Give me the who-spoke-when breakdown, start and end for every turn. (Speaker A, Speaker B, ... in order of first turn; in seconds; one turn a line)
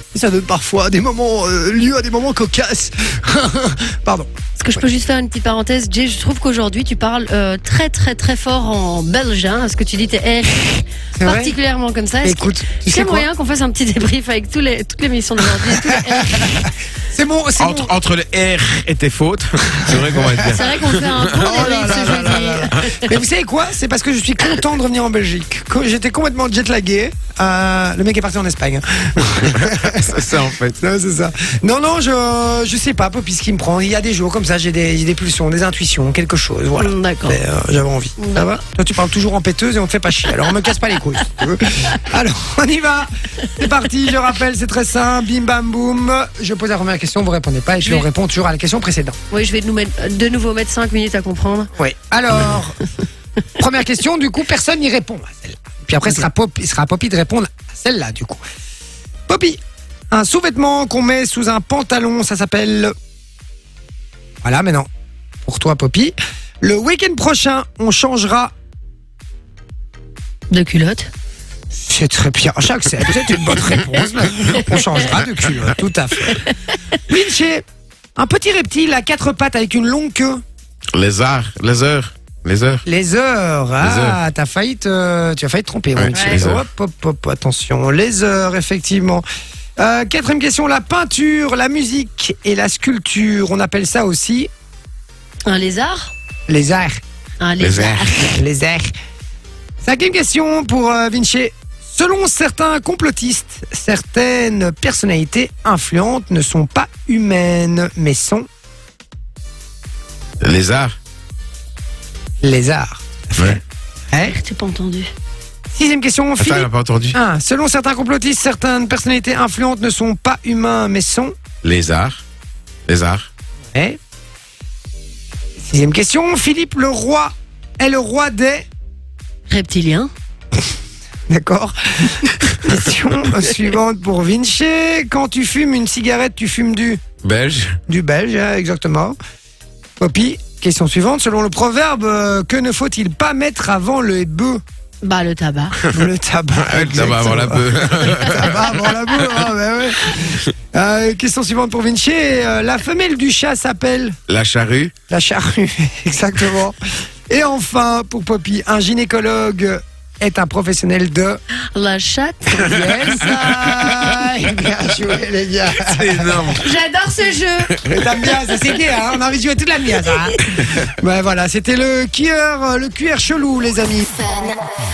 Speaker A: 0.1-4.3
Speaker B: 4.6-16.7
Speaker A: 11.2-11.6
Speaker A: 12.2-13.3
Speaker A: 15.6-17.9
Speaker C: 17.6-22.8
Speaker A: 19.8-20.5
Speaker B: 20.4-23.1
Speaker A: 21.3-49.2
Speaker C: 29.5-30.8
Speaker B: 36.8-37.4
Speaker B: 38.2-38.5
Speaker B: 47.8-48.1
Speaker B: 49.3-51.7
Speaker A: 51.8-52.8
Speaker A: 53.6-58.4
Speaker A: 59.3-59.6
Speaker A: 60.1-62.9
Speaker A: 64.4-64.9
Speaker A: 65.4-68.5
Speaker B: 70.5-71.1
Speaker A: 71.9-76.5
Speaker B: 74.6-75.0
Speaker A: 77.1-77.6
Speaker A: 78.2-80.4
Speaker C: 80.9-82.8
Speaker A: 82.8-89.2
Speaker C: 83.8-84.2
Speaker C: 86.0-86.7
Speaker B: 86.1-86.4
Speaker A: 89.8-94.5
Speaker B: 95.5-96.1
Speaker A: 96.5-97.0
Speaker B: 97.4-98.4
Speaker C: 97.6-98.1
Speaker A: 98.3-98.9
Speaker A: 99.8-108.5
Speaker C: 110.4-110.9
Speaker A: 112.4-113.6
Speaker A: 114.1-114.4
Speaker B: 114.2-115.1
Speaker A: 115.7-121.3
Speaker C: 116.4-117.2
Speaker C: 121.6-122.2
Speaker C: 122.9-123.3
Speaker A: 125.6-128.7
Speaker B: 129.5-130.1
Speaker A: 131.3-137.0
Speaker C: 137.2-137.8
Speaker A: 137.9-139.2
Speaker A: 140.0-144.6
Speaker B: 145.0-145.8
Speaker A: 145.9-154.2
Speaker C: 146.6-149.4
Speaker C: 154.3-154.9
Speaker A: 155.1-156.8
Speaker A: 157.3-161.4
Speaker B: 161.7-163.6
Speaker A: 162.5-166.6
Speaker C: 165.8-166.7
Speaker B: 166.5-167.7
Speaker C: 167.7-168.1
Speaker A: 167.9-174.1
Speaker B: 170.0-170.3